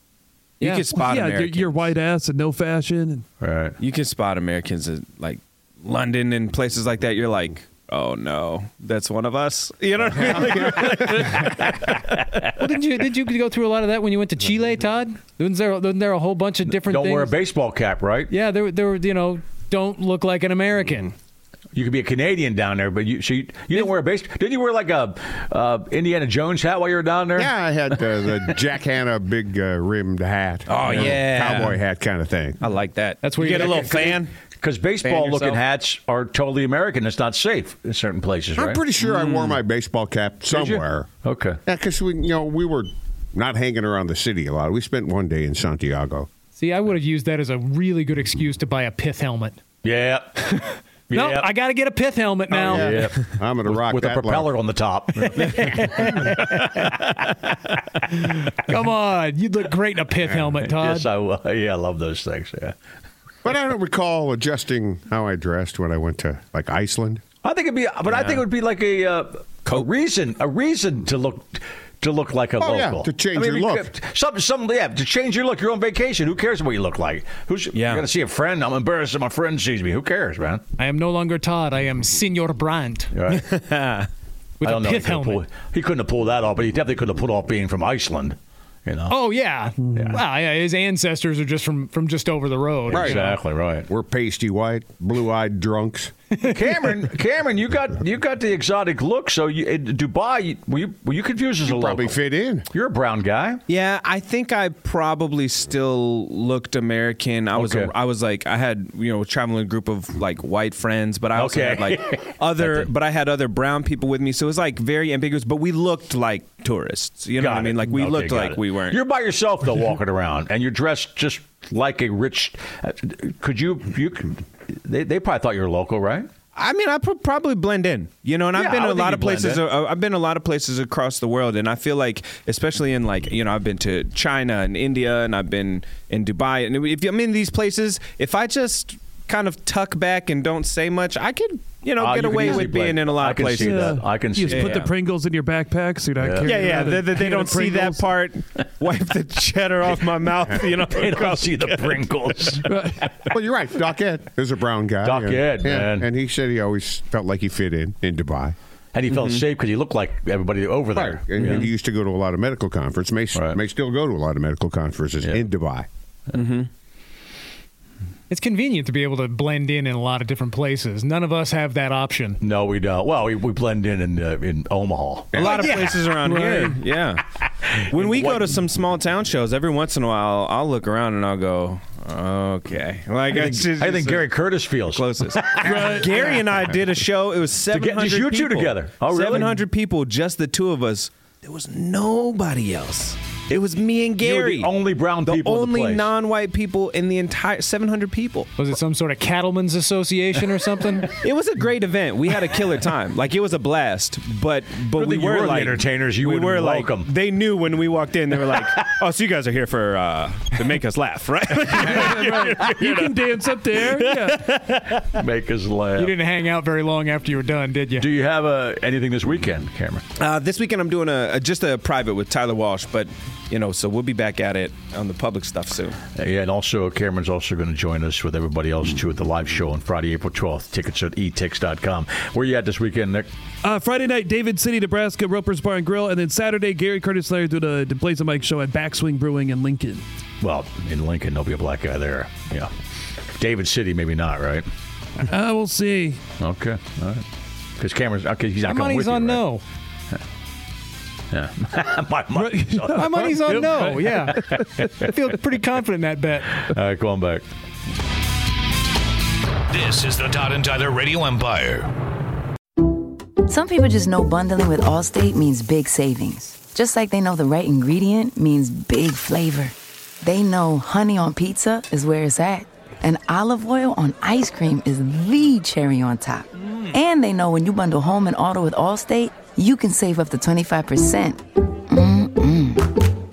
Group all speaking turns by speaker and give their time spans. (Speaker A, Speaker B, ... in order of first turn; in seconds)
Speaker A: 0.6-1.9, 3.8-11.6, 30.7-31.8, 32.6-34.3, 35.0-35.6, 39.0-39.6, 68.1-68.4, 77.7-78.1, 83.3-84.1, 103.7-119.0, 126.5-144.9, 146.4-152.6, 159.1-159.4, 161.4-161.7, 166.3-166.7, 175.3-177.2, 177.8-184.3, 184.9-194.7, 195.2-198.5, 201.2-215.0, 220.2-226.0
Speaker B: 0.6-0.9, 12.6-17.4, 18.3-21.1, 33.2-34.2, 46.5-49.6, 51.1-53.0, 55.4-56.8, 58.2-61.1, 80.8-83.1, 84.6-85.4, 89.1-93.3, 96.4-96.7, 168.3-172.4, 175.4-176.7, 198.6-201.1, 215.9-218.1, 248.6-249.6, 252.9-256.6
Speaker C: 0.9-3.2, 143.6-148.1, 152.6-153.0, 185.7-186.4, 211.8-214.4, 233.6-240.0, 245.3-246.2, 252.3-254.4
Speaker D: 3.4-3.8, 16.6-18.3, 21.7-27.9, 34.6-38.8, 40.5-41.6, 49.8-51.5, 52.6-55.9, 60.3-62.8, 67.4-80.6, 83.1-83.4, 84.6-89.2, 89.9-90.2, 92.9-93.9, 96.4-102.2, 102.7-103.6, 107.5-107.9, 111.3-112.9, 117.4-126.3, 128.5-129.6, 142.0-144.9, 146.2-146.9, 150.7-153.2, 155.0-156.1, 158.9-161.7, 163.3-163.6, 172.4-175.5, 177.9-178.6, 183.3-186.4, 187.7-189.6, 194.2-196.1, 204.9-207.1, 215.0-216.2, 217.9-220.0, 226.2-233.3, 240.4-242.7, 243.3-244.7, 246.4-247.2, 247.8-249.4, 251.3-253.6, 254.1-255.1, 256.5-257.4
Speaker E: 27.4-32.6, 38.5-41.1, 41.6-46.3, 52.5-54.5, 63.4-67.2, 72.6-73.9, 92.9-93.3, 93.9-96.1, 101.7-102.7, 153.3-158.5, 160.9-165.9, 175.3-175.7
Speaker F: 259.7-261.9
Speaker G: 263.5-281.4, 281.9-282.8